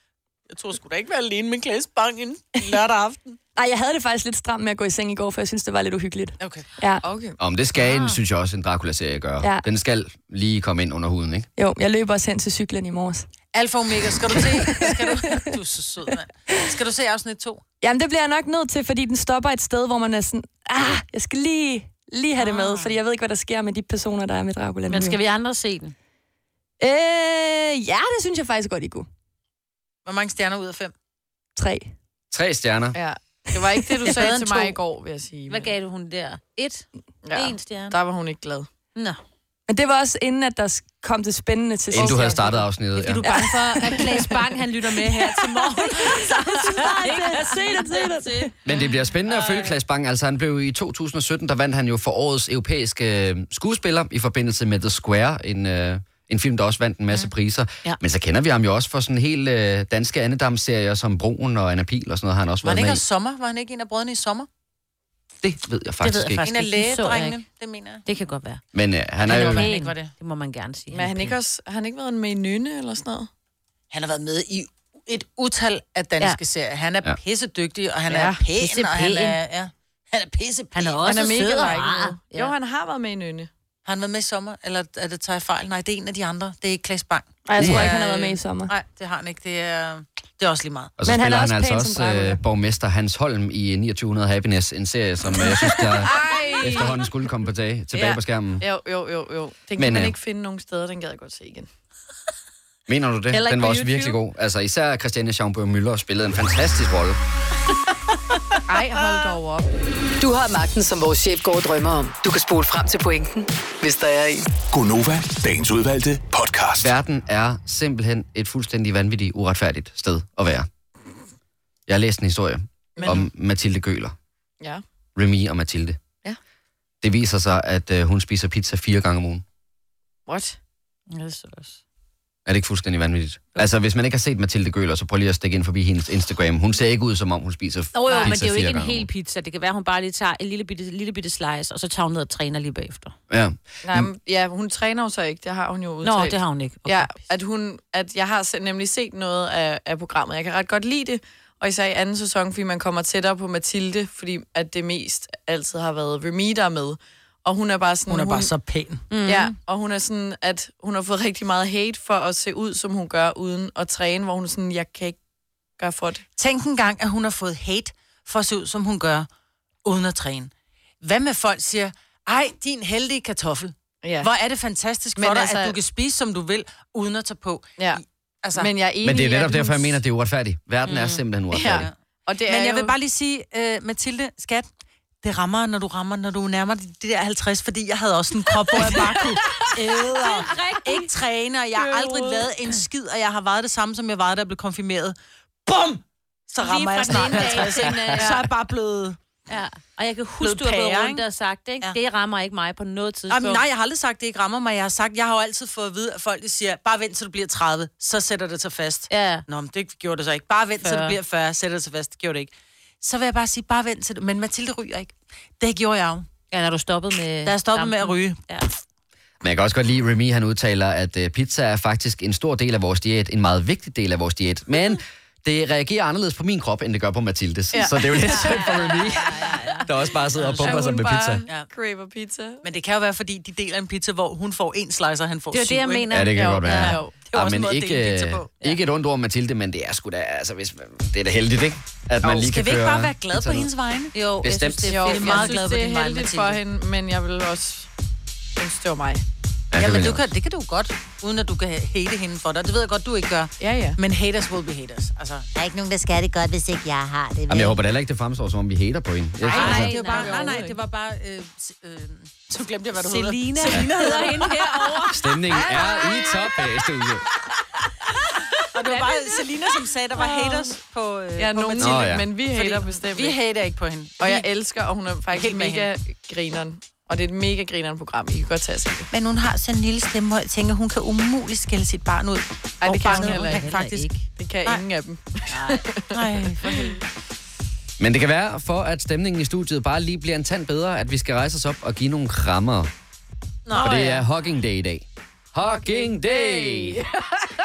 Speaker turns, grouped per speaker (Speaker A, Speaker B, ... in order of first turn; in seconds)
Speaker A: 0.5-3.4, 6.4-6.7, 13.5-17.6, 30.1-30.9, 62.6-64.5, 66.4-68.0, 69.2-70.1, 73.9-81.2, 83.8-90.9, 158.1-159.0, 166.4-169.3, 169.8-170.5, 171.0-178.7, 181.6-181.9, 182.5-184.7, 185.2-195.2, 195.7-199.2, 200.4-201.2, 203.3-216.3, 217.4-218.4, 230.4-230.8, 232.6-236.1, 237.1-238.5, 242.2-244.1, 245.1-245.7, 249.8-255.5, 259.4-266.0, 268.7-274.5, 275.3-275.9, 279.1-284.1, 285.5-287.0, 293.7-294.1
Speaker B: 3.6-7.0, 11.6-13.3, 14.4-15.3, 17.8-25.2, 26.8-29.1, 31.6-31.9, 39.7-42.6, 43.2-44.0, 46.0-48.5, 87.5-88.7, 91.0-92.4
Speaker C: 7.0-7.4, 33.0-35.7, 37.2-38.7, 43.9-44.2, 70.9-73.3, 81.0-83.5, 95.8-97.0, 97.9-101.7, 108.7-109.7, 123.0-123.3, 130.3-130.6, 143.8-158.5, 159.2-165.2, 165.8-166.2, 174.0-174.3, 175.2-175.8, 178.6-180.0, 181.5-182.9, 227.7-229.5, 230.6-232.6, 236.4-237.1, 244.9-247.9, 248.6-249.2, 253.6-254.0, 260.0-260.7, 270.2-270.5, 271.4-273.4, 274.2-279.1, 282.8-283.7, 284.4-287.0, 295.6-297.3
Speaker D: 7.4-11.5, 32.3-33.0, 41.9-43.3, 48.6-63.0, 65.4-66.4, 68.7-69.7, 87.6-87.9, 91.0-98.7, 99.8-100.2, 102.9-107.2, 116.8-120.7, 121.9-124.2, 125.2-126.0, 127.0-129.4, 132.5-139.1, 143.3-144.1, 179.0-181.9, 219.4-231.4, 236.1-243.7, 244.4-245.1, 249.7-250.2, 257.5-260.0, 265.1-267.2, 271.8-272.2, 288.0-292.9, 293.8-297.0
Speaker E: 7.8-8.2, 24.9-25.9, 34.2-34.6, 35.5-38.0, 43.0-48.3, 66.0-67.4, 68.1-68.6, 69.3-71.4, 78.5-79.4, 80.7-82.5, 103.3-104.2, 131.1-131.8, 137.9-143.1, 146.0-147.2, 159.1-159.5, 180.9-181.2, 190.2-191.1, 191.8-192.5, 196.6-198.4, 199.5-203.6, 209.1-209.4, 210.8-211.2, 216.5-218.7, 228.2-229.9, 235.5-237.0, 244.1-246.5, 259.5-260.6, 263.0-265.2, 282.9-284.2, 293.8-294.2
Speaker F: 110.2-114.5
Speaker G: 114.7-116.9
Speaker H: 255.6-257.8